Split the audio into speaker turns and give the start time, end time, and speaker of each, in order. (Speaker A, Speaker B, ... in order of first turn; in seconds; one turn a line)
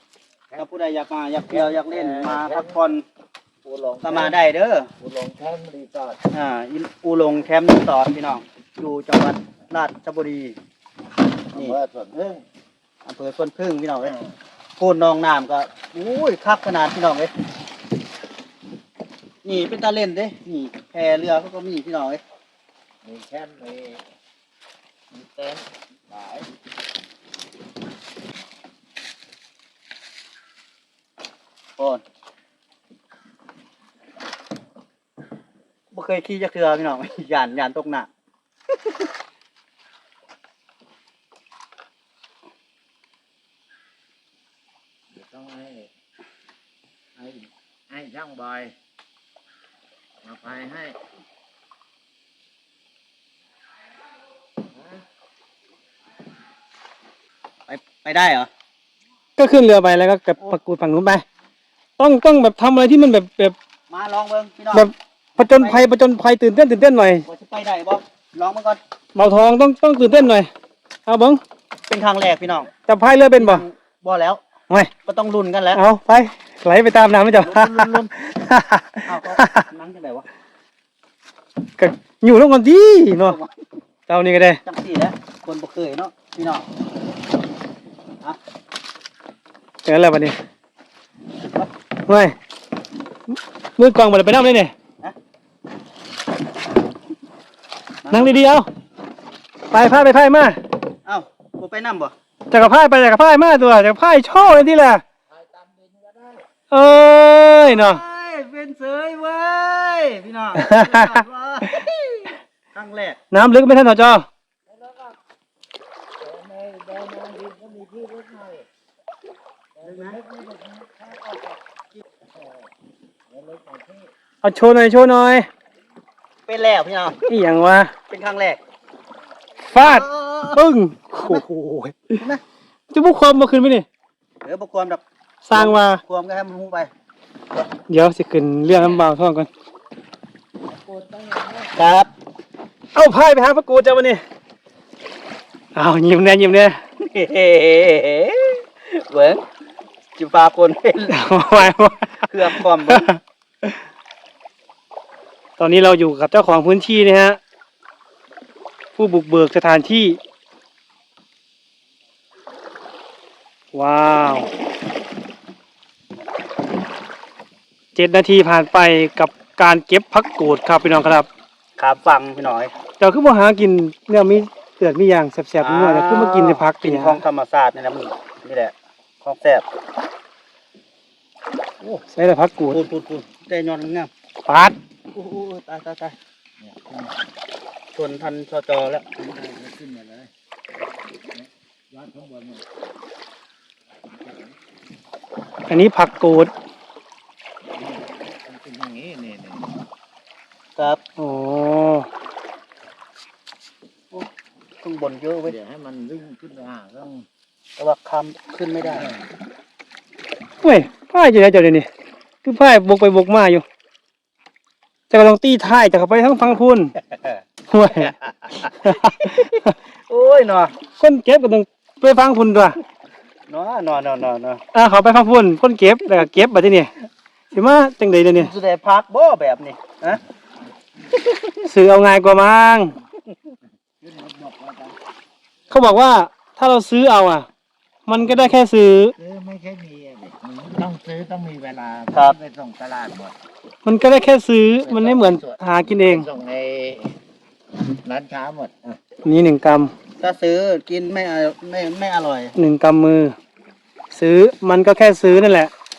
Speaker A: 0.5-3.0
Speaker B: 1.5-2.8
Speaker B: 3.6-4.4
Speaker A: 4.0-4.9
Speaker B: 5.0-6.2
Speaker A: 6.3-10.6
Speaker A: 11.5-11.8
Speaker B: 11.5-12.4
Speaker A: 13.0-14.2
Speaker A: 14.8-17.3
Speaker A: 19.4-22.2
Speaker B: 23.0-24.0
Speaker B: 25.1-25.6
Speaker A: 26.1-26.5
Speaker A: 31.8-32.0
Speaker A: 35.9-38.1
Speaker B: 45.1-45.9
Speaker B: 47.2-48.7
Speaker B: 50.2-51.0
Speaker B: 54.7-55.0
Speaker A: 57.7-58.5
Speaker C: 59.4-61.2
Speaker C: 62.0-63.5
Speaker A: 63.9-65.9
Speaker C: 64.7-67.2
Speaker A: 67.2-68.8
Speaker C: 69.1-70.5
Speaker C: 71.1-71.4
Speaker A: 71.9-72.7
Speaker C: 72.9-73.6
Speaker A: 73.3-74.4
Speaker A: 75.0-75.8
Speaker C: 75.7-79.6
Speaker A: 77.3-78.1
Speaker A: 79.0-80.2
Speaker C: 81.8-83.4
Speaker A: 83.2-83.6
Speaker C: 84.1-84.6
Speaker A: 84.6-86.7
Speaker C: 89.8-90.3
Speaker C: 92.1-92.3
Speaker C: 93.8-94.7
Speaker A: 98.0-98.4
Speaker C: 98.1-98.7
Speaker C: 99.7-100.6
Speaker A: 101.0-102.1
Speaker C: 102.5-105.0
Speaker B: 105.3-106.5
Speaker C: 106.7-108.0
Speaker A: 107.6-113.2
Speaker C: 110.6-111.7
Speaker C: 113.3-114.2
Speaker B: 114.7-115.2
Speaker B: 116.2-118.7
Speaker B: 119.8-121.5
Speaker A: 119.8-120.2
Speaker B: 123.3-124.1
Speaker C: 124.4-125.5
Speaker A: 126.5-127.2
Speaker C: 127.3-127.9
Speaker A: 128.1-128.6
Speaker C: 129.7-132.2
Speaker A: 129.7-130.6
Speaker A: 132.2-132.4
Speaker C: 132.9-133.8
Speaker A: 134.4-135.0
Speaker C: 135.4-136.0
Speaker A: 135.5-136.9
Speaker C: 137.9-139.5
Speaker B: 140.7-141.7
Speaker A: 141.7-142.1
Speaker C: 142.9-144.2
Speaker C: 145.7-146.8
Speaker A: 147.0-149.4
Speaker A: 150.2-151.2
Speaker C: 151.1-153.8
Speaker A: 152.3-153.1
Speaker C: 155.6-157.4
Speaker C: 159.0-160.2
Speaker C: 163.7-164.5
Speaker C: 167.9-171.3
Speaker A: 171.8-172.7
Speaker C: 173.0-177.2
Speaker A: 175.6-179.6
Speaker C: 182.1-182.8
Speaker A: 182.7-184.1
Speaker C: 184.5-184.8
Speaker A: 185.1-186.2
Speaker B: 186.6-187.1
Speaker A: 187.9-189.1
Speaker B: 189.2-190.3
Speaker B: 191.3-192.6
Speaker B: 194.1-194.5
Speaker C: 195.7-196.5
Speaker B: 197.8-199.7
Speaker A: 200.8-201.0
Speaker C: 201.2-202.1
Speaker A: 204.8-205.6
Speaker B: 205.4-207.2
Speaker A: 207.8-209.1
Speaker B: 208.9-209.2
Speaker C: 210.6-211.9
Speaker C: 212.4-213.6
Speaker C: 215.1-216.9
Speaker A: 217.1-217.4
Speaker C: 217.7-218.1
Speaker A: 218.6-220.7
Speaker C: 218.8-219.7
Speaker C: 221.0-222.8
Speaker A: 223.5-224.6
Speaker C: 224.7-226.9
Speaker C: 227.5-228.5
Speaker A: 228.3-230.2
Speaker C: 231.6-232.9
Speaker B: 234.0-235.0
Speaker C: 235.7-237.5
Speaker C: 238.1-239.1
Speaker B: 239.1-243.3
Speaker C: 243.8-246.3
Speaker B: 244.8-247.2
Speaker B: 248.0-249.0
Speaker C: 249.2-249.9
Speaker A: 250.2-252.6
Speaker C: 252.6-253.3
Speaker C: 254.1-255.7